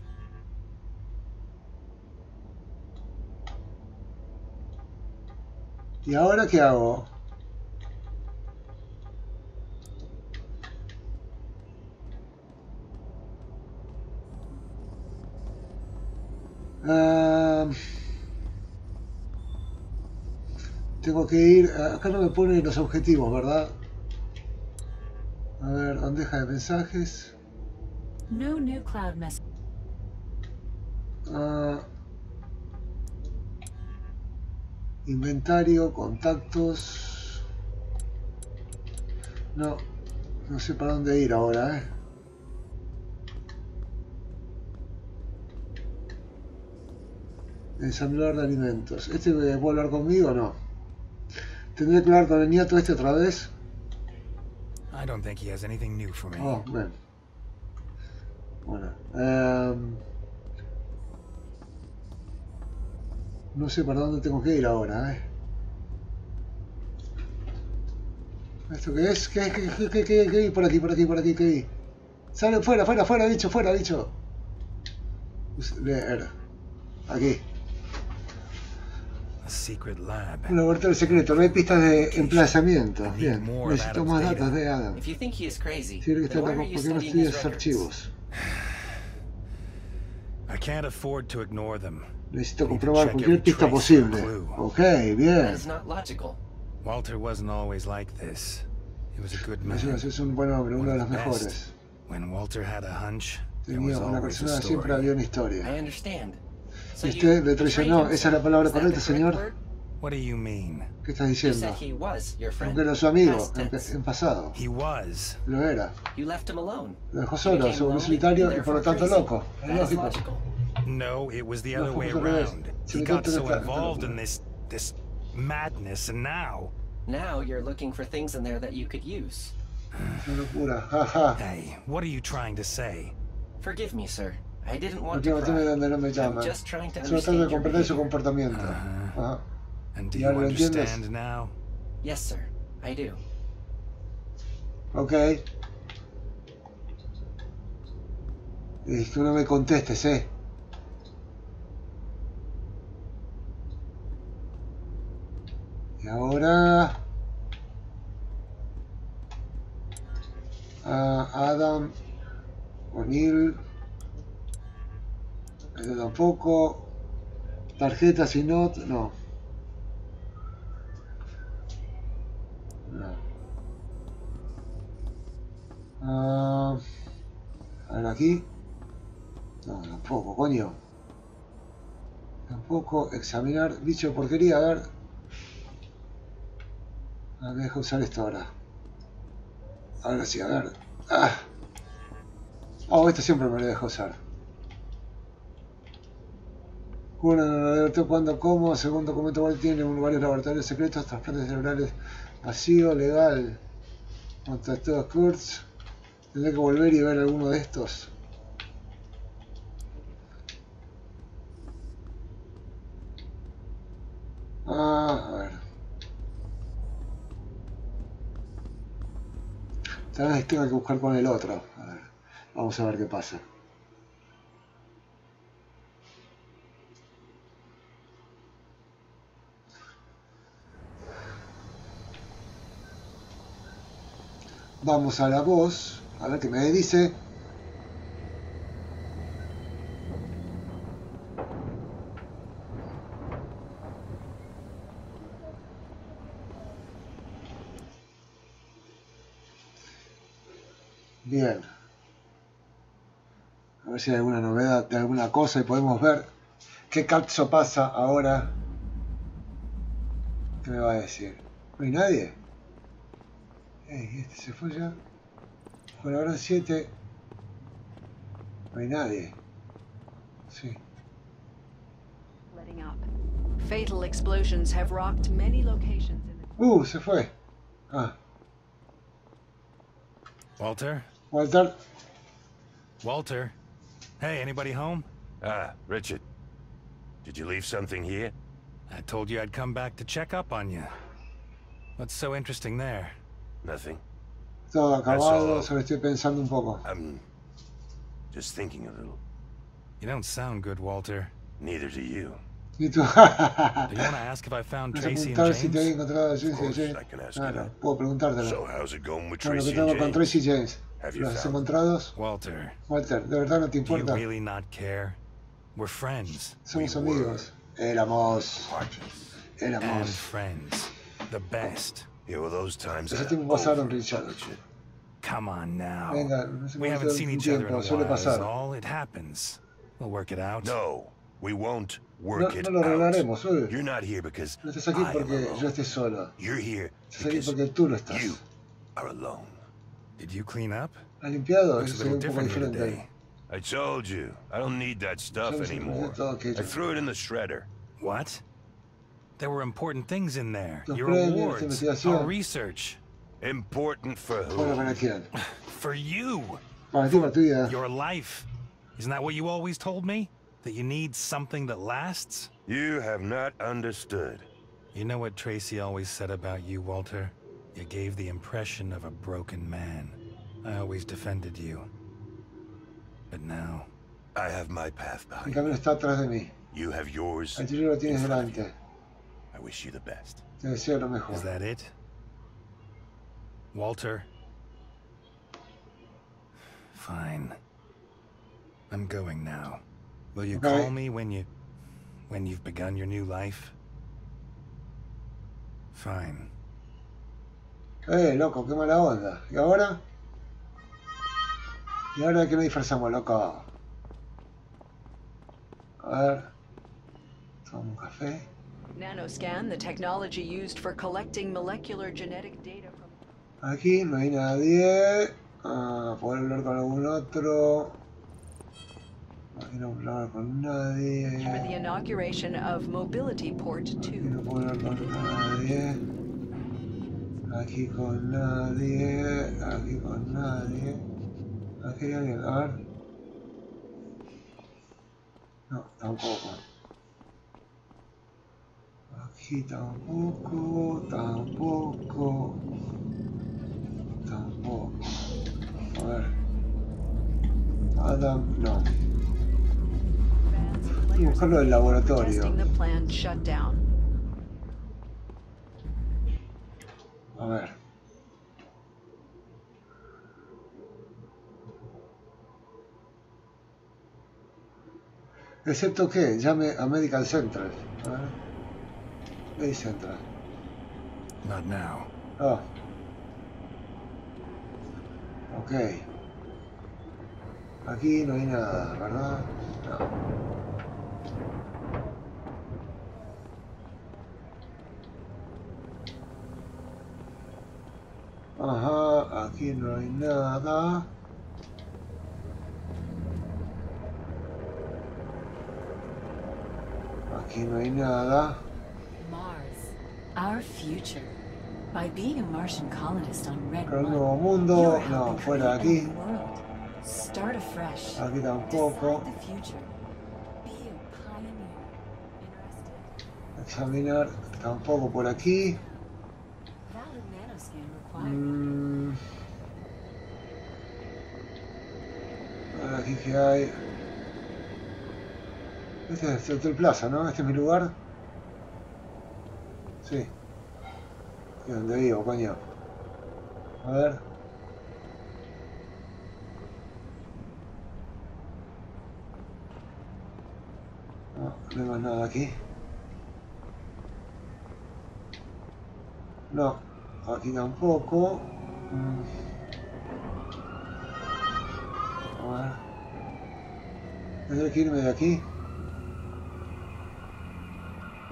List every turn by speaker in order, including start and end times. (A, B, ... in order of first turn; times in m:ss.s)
0:06.0-0:07.1 A
0:16.8-0:17.8 A
0:21.0-0:23.7 A
0:25.6-0:27.3 A
0:28.3-0:29.4 B
0:31.2-0:31.8 A
0:35.0-0:37.4 A
0:39.5-0:39.8 A
0:40.4-0:41.9 A
0:47.8-0:50.6 A
0:51.8-0:53.5 A
0:54.9-0:56.6 C
0:56.3-0:57.0 A
0:58.6-1:00.0 A
1:03.5-1:05.2 A
1:08.7-1:11.7 A
1:12.3-1:14.1 A
1:15.6-1:16.3 A
1:17.1-1:17.4 A
1:19.4-1:24.6 C
1:20.5-1:25.0 A
1:24.9-1:27.9 D
1:26.0-1:28.1 A
1:28.4-1:28.8 C
1:30.5-1:32.1 C
1:32.3-1:35.6 A
1:32.6-1:34.6 C
1:35.4-1:36.4 D
1:36.8-1:40.0 C
1:39.6-1:41.7 A
1:40.8-1:41.6 C
1:42.1-1:45.1 C
1:43.6-1:45.7 A
1:45.6-1:46.4 D
1:46.9-1:49.6 D
1:47.0-1:49.5 A
1:50.0-1:50.9 C
1:51.0-1:51.8 A
1:51.4-1:53.9 D
1:52.6-1:54.6 A
1:54.5-1:55.4 C
1:55.4-1:55.9 A
1:56.1-2:00.4 D
1:57.1-2:00.2 A
2:00.8-2:06.7 C
2:01.7-2:04.2 A
2:07.0-2:09.5 D
2:09.9-2:10.4 C
2:10.2-2:11.4 A
2:11.4-2:13.1 C
2:13.6-2:18.1 D
2:15.1-2:19.4 A
2:18.5-2:19.2 C
2:19.9-2:21.6 C
2:20.1-2:21.0 A
2:22.0-2:23.2 D
2:24.9-2:25.4 A
2:28.8-2:30.3 A
2:36.0-2:37.0 A
2:40.8-2:41.9 A
2:42.9-2:43.6 A
2:45.8-2:46.9 A
2:47.8-2:49.1 A
2:52.9-2:53.2 A
2:56.0-2:56.8 A
2:57.9-2:58.4 A
2:59.6-3:00.8 A
3:02.5-3:04.9 A
3:07.4-3:08.5 A
3:10.0-3:11.5 A
3:12.9-3:14.2 A
3:17.2-3:23.6 A
3:24.4-3:25.6 A
3:26.3-3:28.1 A
3:34.6-3:35.6 A
3:40.1-3:43.4 A
3:54.8-3:57.2 A
4:11.2-4:11.6 A
4:13.8-4:16.3 A
4:16.9-4:18.5 A
4:20.6-4:22.4 A
4:23.8-4:25.0 A
4:26.0-4:26.9 A
4:28.7-4:29.3 A
4:30.5-4:30.8 A
4:32.5-4:33.0 E
4:33.6-4:36.4 E
4:36.6-4:37.3 A
4:40.6-4:41.1 C
4:41.3-4:41.8 A
4:43.0-4:43.6 C
4:44.2-4:45.1 C
4:45.4-4:46.2 F
4:47.2-4:48.3 F
4:48.9-4:50.9 C
4:52.0-4:53.2 C
4:53.6-4:54.0 F
4:54.7-4:56.8 A
4:55.0-4:55.7 F
4:56.8-4:57.2 F
4:58.3-4:59.2 F
5:00.0-5:01.3 C
5:01.6-5:02.4 F
5:02.8-5:04.1 A
5:03.9-5:05.9 C
5:04.9-5:08.6 A
5:06.4-5:07.7 F
5:08.4-5:10.4 F
5:09.4-5:12.1 A
5:11.0-5:11.6 F
5:12.1-5:12.8 C
5:12.9-5:14.2 A
5:13.8-5:15.2 C
5:15.7-5:16.6 C
5:16.6-5:18.7 A
5:16.7-5:17.5 F
5:18.6-5:19.3 F
5:19.6-5:20.2 A
5:19.8-5:22.1 C
5:22.2-5:24.6 F
5:23.1-5:24.4 A
5:25.2-5:30.8 C
5:26.1-5:28.5 A
5:30.6-5:35.7 F
5:32.3-5:33.7 A
5:34.6-5:36.3 A
5:36.4-5:37.5 F
5:37.1-5:38.4 A
5:38.1-5:38.4 F
5:39.0-5:39.6 F
5:40.2-5:41.0 C
5:41.2-5:43.0 A
5:41.7-5:43.1 C
5:43.5-5:47.7 F
5:45.4-5:46.8 A
5:48.0-5:48.4 C
5:49.4-5:53.0 C
5:50.9-5:52.3 A
5:53.4-5:55.0 F
5:54.5-5:55.3 A
5:55.4-6:02.5 C
5:56.9-5:57.8 A
6:02.7-6:04.5 F
6:04.9-6:11.9 C
6:13.3-6:13.9 C
6:14.3-6:15.7 F
6:15.4-6:16.5 A
6:16.7-6:18.6 F
6:17.6-6:18.7 A
6:19.5-6:20.4 F
6:20.6-6:21.5 A
6:21.3-6:21.9 C
6:23.7-6:24.3 C
6:26.9-6:27.6 C
6:28.9-6:29.8 C
6:30.3-6:31.5 C
6:30.5-6:30.9 A
6:32.3-6:33.7 C
6:35.9-6:36.5 C
6:38.0-6:40.0 A
6:42.1-6:43.7 A
6:46.0-6:46.5 A
6:47.6-6:48.5 A
6:48.9-6:53.1 E
6:53.6-6:58.0 A
6:59.5-7:01.7 A
7:01.4-7:04.3 E
7:04.0-7:06.0 A
7:07.5-7:11.0 A
7:11.8-7:12.8 A
7:15.7-7:16.6 A
7:19.1-7:22.6 A
7:24.2-7:25.0 A
7:25.9-7:26.3 A
7:28.0-7:28.8 A
7:30.6-7:33.8 E
7:31.1-7:32.6 A
7:37.4-7:37.7 A
7:45.6-7:48.4 A
7:49.6-7:50.2 A
7:51.4-7:52.1 C
7:52.4-7:52.6 A
7:55.5-7:56.0 A
7:57.8-8:00.1 A
8:08.6-8:11.1 A
8:17.3-8:18.6 A
8:19.2-8:21.4 B
8:21.9-8:29.9 B
8:23.9-8:26.1 A
8:28.2-8:29.3 A
8:30.6-8:33.1 B
8:33.6-8:35.8 A
8:36.9-8:38.6 B
8:38.1-8:39.2 A
8:42.7-8:43.8 A
8:46.1-8:47.9 A
8:50.0-8:50.3 A
8:51.6-8:52.6 A
8:53.8-8:54.2 A
9:01.3-9:02.6 A
9:06.5-9:09.3 A
9:12.3-9:12.8 A
9:14.5-9:15.4 A